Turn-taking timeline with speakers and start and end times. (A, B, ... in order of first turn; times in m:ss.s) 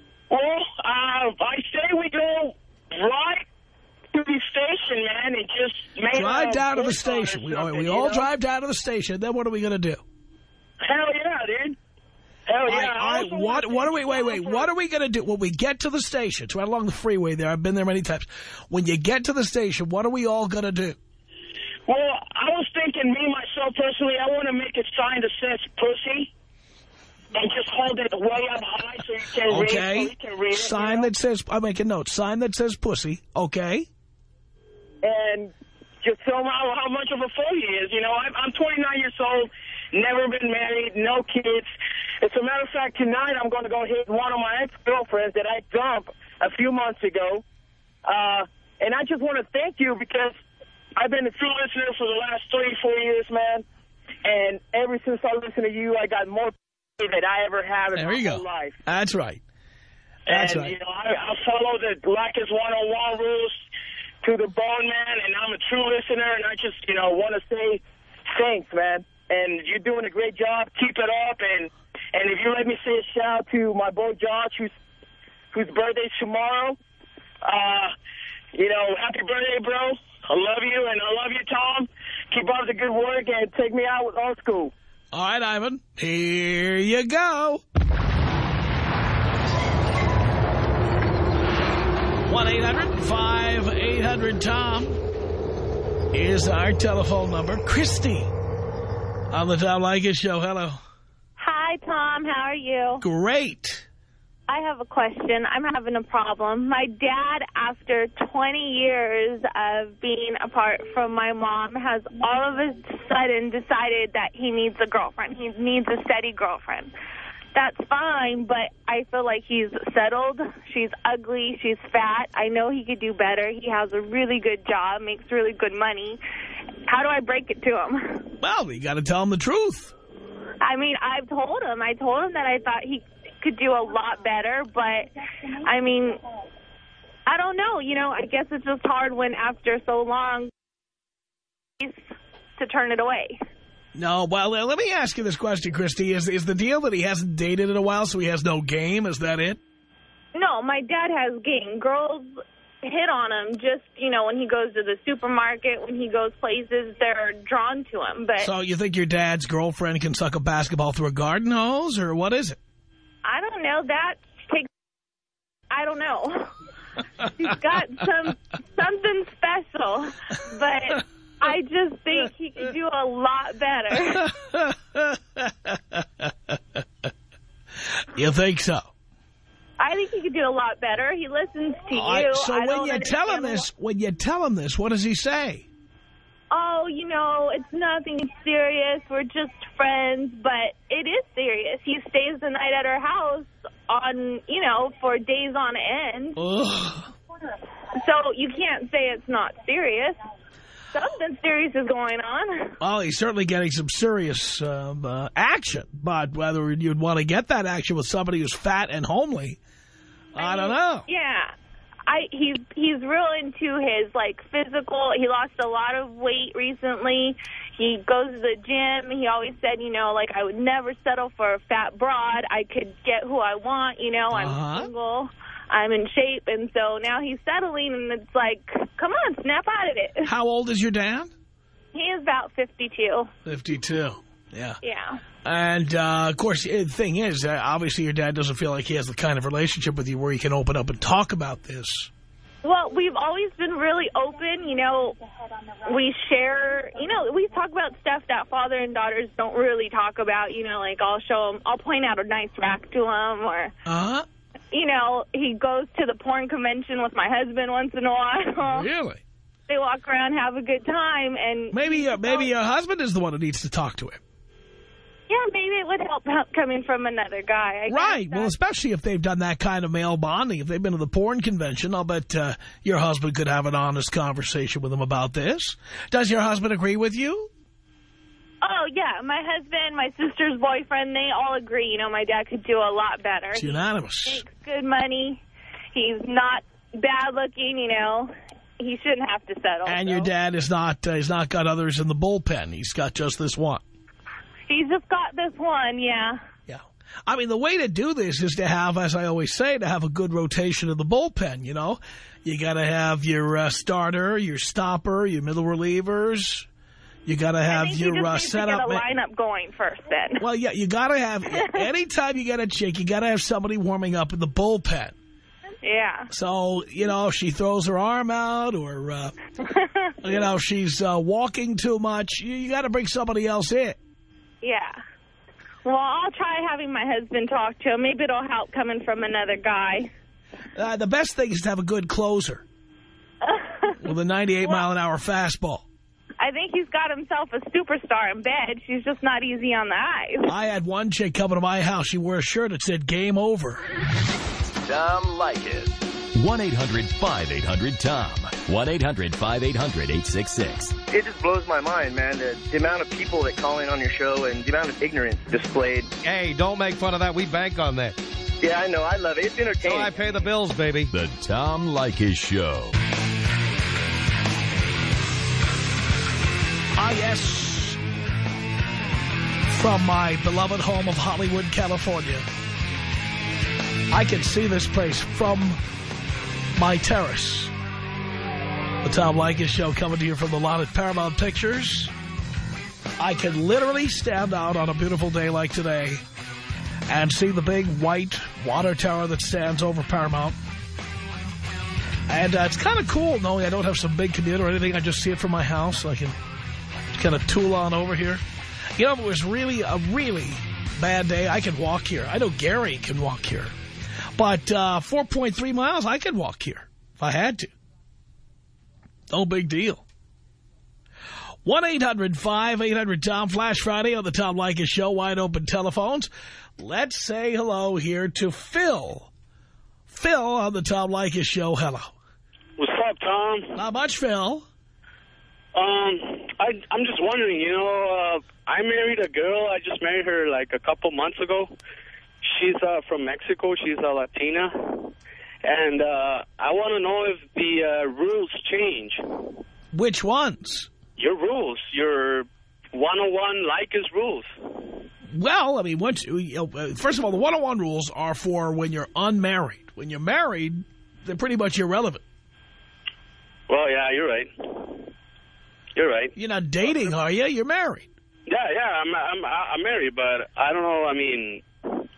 0:00.3-0:03.4 A
0:04.1-0:08.3 A
0:06.1-0:10.0 B
0:10.8-0:11.8 A
0:12.5-0:14.7 A
0:12.6-0:21.0 B
0:21.9-0:26.3 A
0:27.3-0:31.1 A
0:29.4-0:33.9 B
0:35.0-0:41.7 A
0:42.2-0:47.4 A
0:48.0-0:50.4 A
0:51.0-0:53.6 A
0:54.2-0:58.8 A
0:57.9-0:59.4 B
1:00.3-1:03.6 A
1:00.3-1:00.7 B
1:04.2-1:14.7 A
1:15.5-1:16.8 A
1:17.4-1:17.9 A
1:18.5-1:24.7 A
1:25.1-1:27.6 B
1:32.3-1:35.0 B
1:36.1-1:38.3 B
1:39.3-1:40.8 B
1:41.4-1:43.0 C
1:43.0-1:43.8 B
1:44.5-1:56.9 C
1:57.5-2:06.2 C
2:06.9-2:08.3 C
2:08.4-2:09.9 B
2:10.6-2:15.1 C
2:15.6-2:16.2 C
2:17.3-2:20.5 C
2:22.6-2:23.3 C
2:23.9-2:29.6 B
2:30.3-2:38.5 C
2:38.4-2:42.6 B
2:43.2-2:44.7 C
2:45.7-2:46.6 C
2:47.4-2:54.3 C
2:54.1-2:56.8 B
2:58.1-2:58.9 B
2:59.8-3:03.7 C
3:01.9-3:05.6 B
3:06.5-3:16.4 C
3:16.4-3:17.1 B
3:17.9-3:20.2 C
3:20.9-3:22.8 C
3:22.8-3:29.6 B
3:30.3-3:31.1 B
3:30.4-3:31.5 C
3:32.1-3:50.3 C
3:44.3-3:44.9 B
3:50.2-3:51.3 B
3:51.9-3:53.3 C
3:53.4-3:54.8 B
3:54.8-3:55.2 C
3:55.4-4:02.1 B
4:02.6-4:05.2 C
4:05.8-4:13.7 C
4:13.8-4:14.2 B
4:14.7-4:18.9 C
4:18.6-4:19.2 B
4:19.7-4:22.5 C
4:21.7-4:24.2 B
4:25.3-4:28.6 C
4:27.9-4:37.5 B
4:38.6-4:45.4 C
4:43.5-4:44.4 B
4:45.9-4:50.3 C
4:49.8-4:53.8 B
4:54.7-4:56.4 C
4:56.7-5:06.7 B
5:07.2-5:09.0 B
5:07.6-5:10.4 C
5:10.4-5:15.2 B
5:11.5-5:11.8 C
5:15.8-5:16.3 C
5:16.3-5:19.3 B
5:19.7-5:20.1 C
5:20.2-5:24.0 B
5:24.6-5:25.0 C
5:25.8-5:30.1 C
5:30.8-5:32.6 B
5:33.4-5:34.1 C
5:34.0-5:35.8 B
5:36.4-5:40.5 C
5:40.4-5:43.8 B
5:44.8-5:50.9 D
5:51.1-5:56.1 E
5:56.2-5:58.2 F
5:58.6-6:00.5 E
5:59.8-6:01.1 F
6:01.1-6:03.0 D
6:07.0-6:08.0 B
6:09.7-6:12.5 B
6:14.1-6:15.8 B
6:16.8-6:17.7 B
6:19.0-6:22.1 B
6:23.2-6:26.2 B
6:27.1-6:30.6 B
6:32.3-6:36.4 B
6:37.2-6:38.4 B
6:39.0-6:43.7 B
6:44.4-6:47.7 B
6:49.3-6:50.0 B
6:51.6-6:59.3 B
7:00.1-7:02.1 B
7:02.8-7:03.8 G
7:03.7-7:04.6 B
7:05.7-7:11.7 G
7:12.4-7:15.1 G
7:15.6-7:19.2 G
7:19.9-7:20.9 B
7:21.2-7:24.4 G
7:25.3-7:32.2 B
7:33.7-7:35.0 G
7:36.0-7:36.3 G
7:36.4-7:38.1 B
7:38.5-7:41.6 G